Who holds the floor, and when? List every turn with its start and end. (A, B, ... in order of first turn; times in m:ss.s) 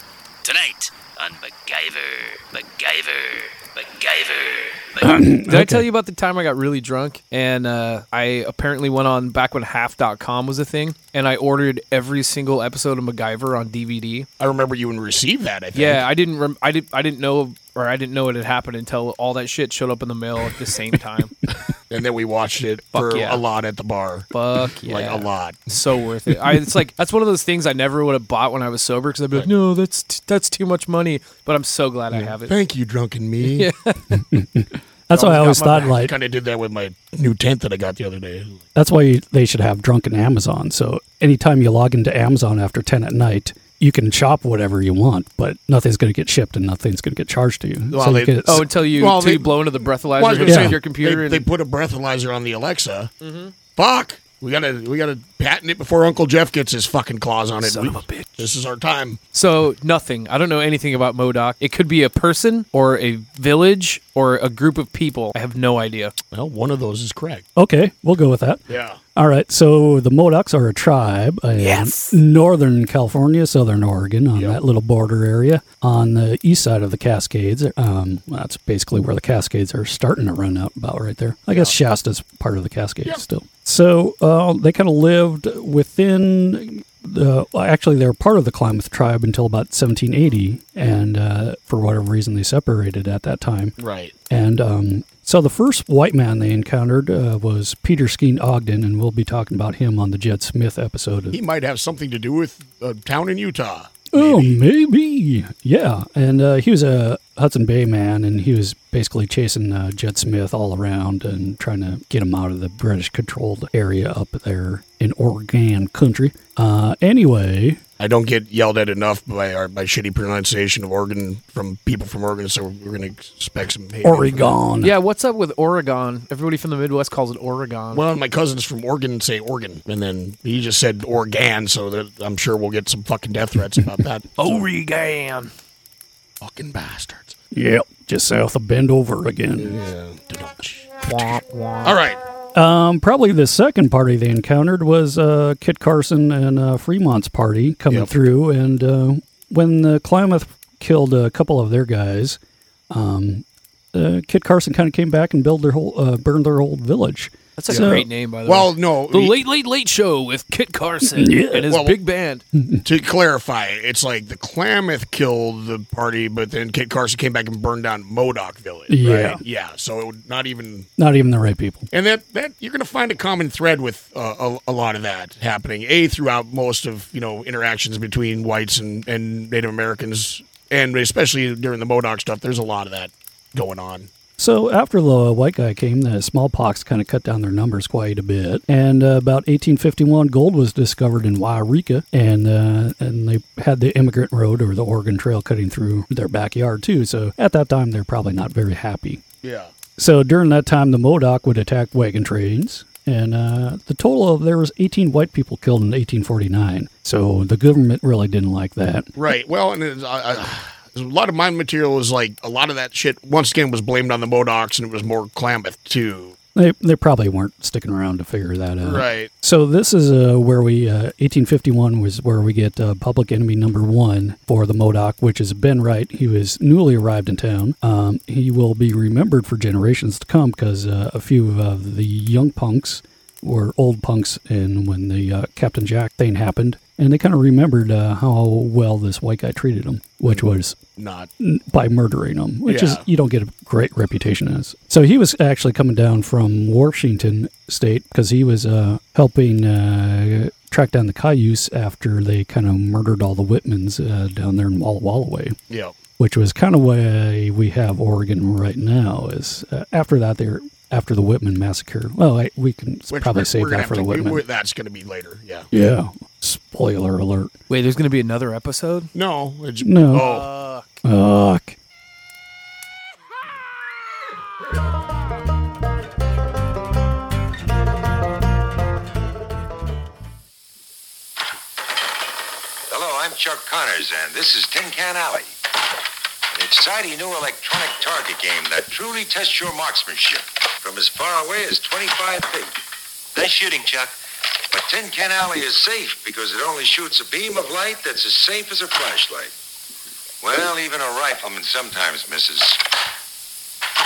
0:00.4-0:05.2 A
0:05.0-0:05.9 B
0:05.5-0:14.3 C
0:14.4-0:16.0 D
0:15.8-0:21.3 C
0:21.9-0:24.3 D
0:22.9-0:23.4 C
0:24.3-0:32.5 C
0:24.8-0:25.7 D
0:32.1-0:33.7 D
0:33.5-0:34.2 C
0:34.3-0:36.1 B
0:35.1-0:36.0 C
0:35.8-0:38.6 D
0:38.8-0:48.6 B
0:47.9-0:53.1 D
0:48.5-0:51.4 C
0:50.5-0:50.8 B
0:53.2-0:53.5 C
0:53.7-0:59.2 D
0:57.7-0:58.3 C
0:59.3-1:06.2 C
1:06.3-1:07.4 D
1:07.6-1:08.6 B
1:08.7-1:09.0 D
1:09.2-1:33.8 B
1:11.6-1:12.2 C
1:14.3-1:14.6 D
1:21.5-1:21.8 D
1:33.8-1:34.2 D
1:34.3-1:41.4 B
1:41.3-1:44.6 D
1:44.1-1:57.8 B
1:58.0-2:04.6 D
2:04.0-2:04.9 B
2:04.8-2:08.0 C
2:07.9-2:14.7 D
2:14.4-2:15.5 C
2:16.4-2:17.4 D
2:17.5-2:19.8 B
2:19.6-2:22.2 D
2:21.0-2:22.0 C
2:22.6-2:32.4 B
2:32.9-2:38.0 B
2:37.6-2:42.4 C
2:37.7-2:39.4 D
2:41.1-2:41.7 B
2:41.7-2:42.0 D
2:42.6-2:42.8 B
2:42.8-2:50.9 D
2:48.9-2:49.4 B
2:51.0-2:51.9 B
2:51.9-3:04.1 D
3:04.4-3:19.2 B
3:19.4-3:19.7 D
3:20.0-3:29.1 B
3:29.2-3:36.4 D
3:36.6-4:00.8 B
3:38.8-3:39.3 D
4:01.0-4:01.3 D
4:01.4-4:15.6 B
4:02.7-4:03.0 D
4:15.7-4:16.0 D
4:16.2-4:24.4 B
4:23.1-4:25.7 D
4:25.7-4:27.5 B
4:27.7-4:29.1 C
4:29.2-4:30.5 D
4:29.8-4:30.3 B
4:30.1-4:30.9 C
4:31.0-4:31.8 B
4:42.9-4:45.5 E
4:46.5-4:52.8 E
4:53.4-4:54.2 E
4:54.7-4:59.5 E
5:00.4-5:02.8 E